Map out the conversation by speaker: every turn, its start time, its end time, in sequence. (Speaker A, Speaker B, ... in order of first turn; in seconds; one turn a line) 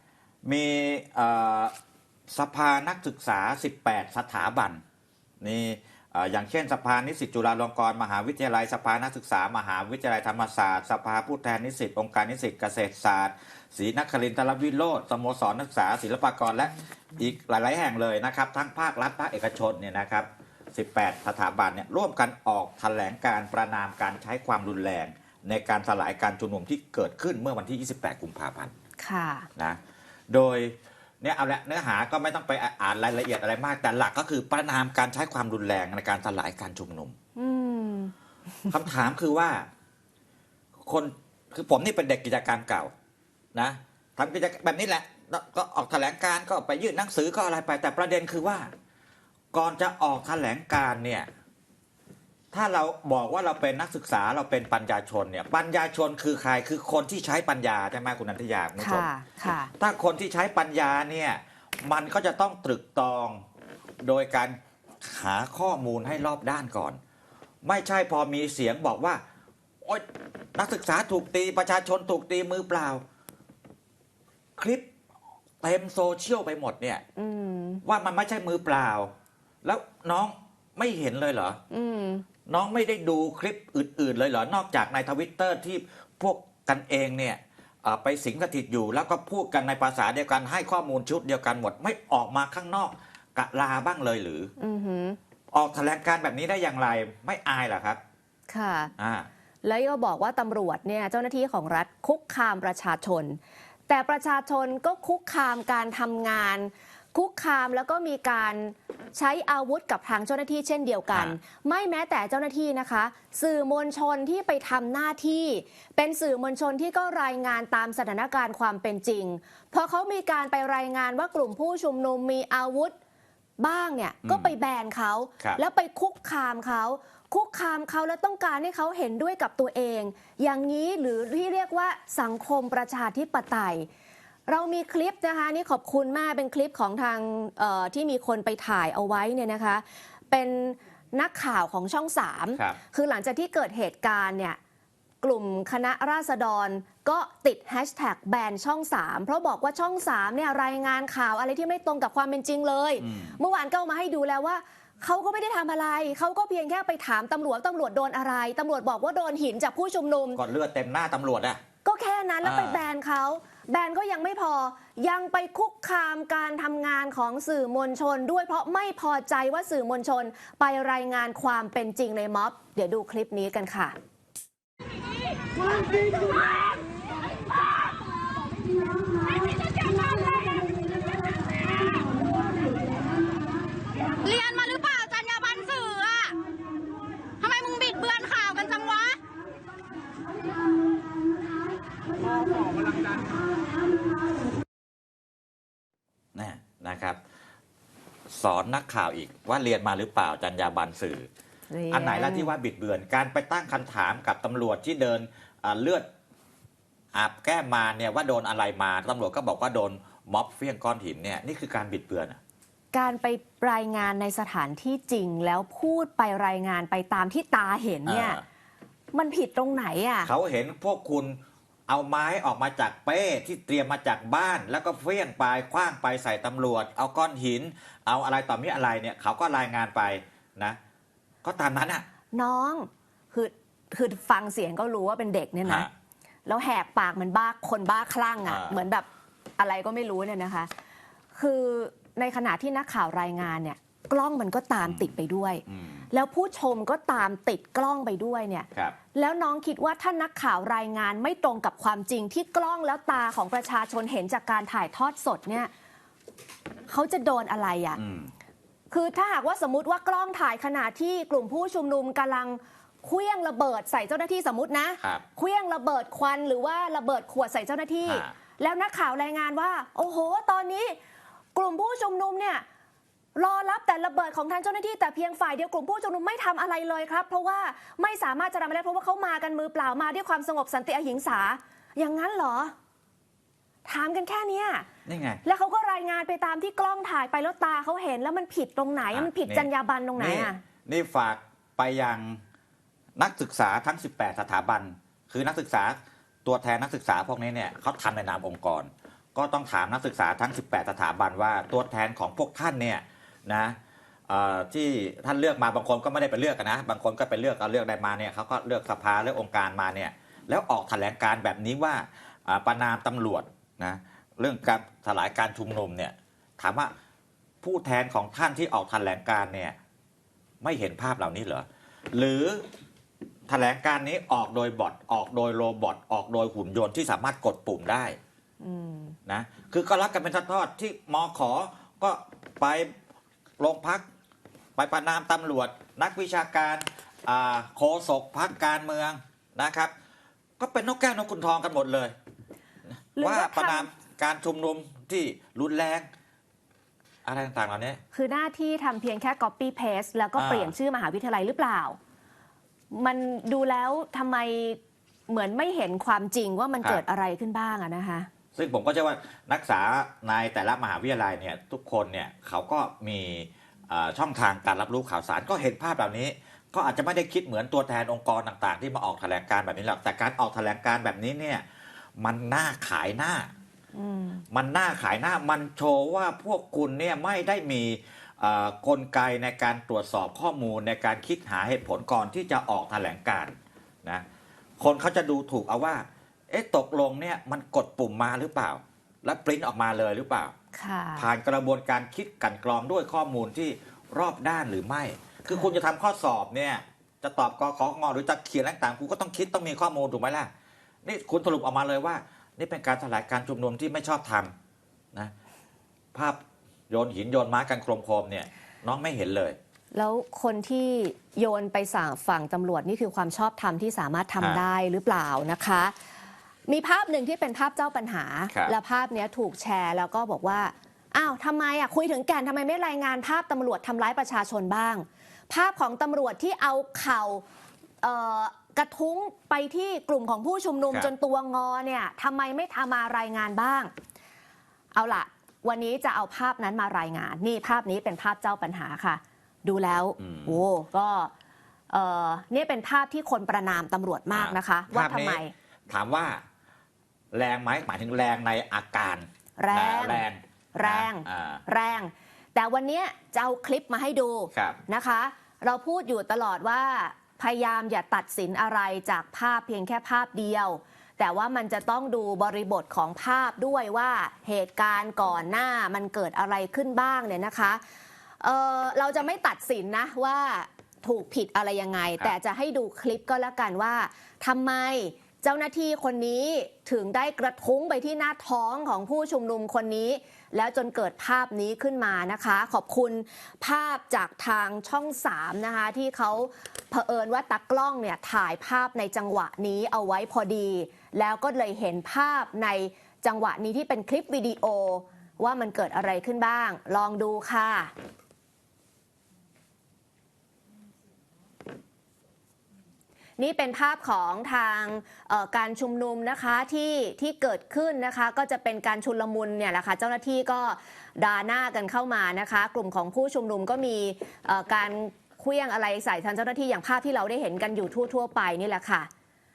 Speaker A: 0.4-1.7
Speaker A: 2.3-4.8
Speaker A: 5.4-28.7
Speaker B: 29.0-29.5
Speaker A: 29.6-37.1
Speaker B: 37.4-38.1
Speaker A: 38.7-39.6
Speaker A: 40.9-42.9
Speaker A: 43.5-48.7
Speaker A: 49.5-51.3
Speaker A: 52.5-59.1
Speaker B: 58.8-59.7
Speaker A: 59.8-63.4
Speaker A: 64.0-67.0
Speaker A: 67.6-69.2
Speaker A: 69.8-73.0
Speaker A: 74.6-74.8
Speaker A: 75.6-77.0
Speaker B: 77.2-77.8
Speaker A: 77.8-79.1
Speaker A: 79.6-81.6
Speaker B: 81.7-82.2
Speaker A: 82.5-94.5
Speaker B: 94.6-95.2
Speaker A: 95.5-98.0
Speaker B: 98.5-98.9
Speaker A: 99.0-99.3
Speaker B: 99.6-123.0
Speaker B: 123.6-133.9
Speaker A: 124.2-124.5
Speaker B: 134.5-144.6
Speaker B: 145.2-160.4
Speaker A: 153.0-153.4
Speaker A: 160.3-161.6
Speaker B: 161.8-173.9
Speaker A: 162.4-162.8
Speaker C: 184.2-186.3
Speaker C: 187.4-189.2
Speaker A: 196.3-197.2
Speaker A: 198.3-201.3
Speaker B: 201.7-202.5
Speaker A: 201.9-206.1
Speaker A: 207.1-212.4
Speaker B: 212.9-218.4
Speaker A: 218.1-218.4
Speaker B: 219.1-220.3
Speaker A: 220.2-221.4
Speaker A: 221.9-230.8
Speaker A: 231.4-232.0
Speaker B: 232.3-235.9
Speaker A: 235.6-235.9
Speaker B: 236.4-239.1
Speaker A: 238.4-238.8
Speaker B: 239.6-240.7
Speaker B: 241.3-255.7
Speaker A: 244.8-245.1
Speaker A: 245.7-246.1
Speaker B: 256.9-258.0
Speaker A: 258.0-258.3
Speaker B: 258.9-270.9
Speaker A: 268.0-268.3
Speaker B: 271.5-272.6
Speaker B: 273.3-282.7
Speaker B: 283.9-284.9
Speaker A: 285.1-285.4
Speaker B: 285.4-290.6
Speaker A: 289.1-292.4
Speaker A: 293.2-303.8
Speaker A: 304.3-316.9
Speaker A: 317.6-319.8
Speaker A: 320.6-322.6
Speaker A: 323.5-328.1
Speaker B: 328.6-329.2
Speaker A: 329.2-332.9
Speaker A: 333.6-334.0
Speaker A: 334.8-339.9
Speaker A: 340.6-342.1
Speaker B: 343.2-343.9
Speaker A: 343.2-346.1
Speaker A: 347.2-348.0
Speaker B: 348.1-352.0
Speaker A: 350.4-350.7
Speaker B: 352.9-358.3
Speaker A: 358.5-371.6
Speaker A: 372.2-373.5
Speaker B: 373.9-374.4
Speaker A: 374.5-384.2
Speaker A: 384.8-390.5
Speaker B: 390.7-391.3
Speaker A: 391.2-400.5
Speaker A: 401.0-404.5
Speaker A: 406.1-406.4
Speaker A: 406.9-409.6
Speaker B: 409.9-415.9
Speaker B: 416.7-427.4
Speaker B: 428.0-433.9
Speaker B: 434.9-441.3
Speaker A: 440.2-440.6
Speaker B: 441.9-445.5
Speaker A: 444.3-446.4
Speaker A: 447.3-451.6
Speaker B: 449.6-450.2
Speaker B: 450.7-467.8
Speaker A: 454.5-454.8
Speaker B: 468.4-497.9
Speaker B: 503.4-519.1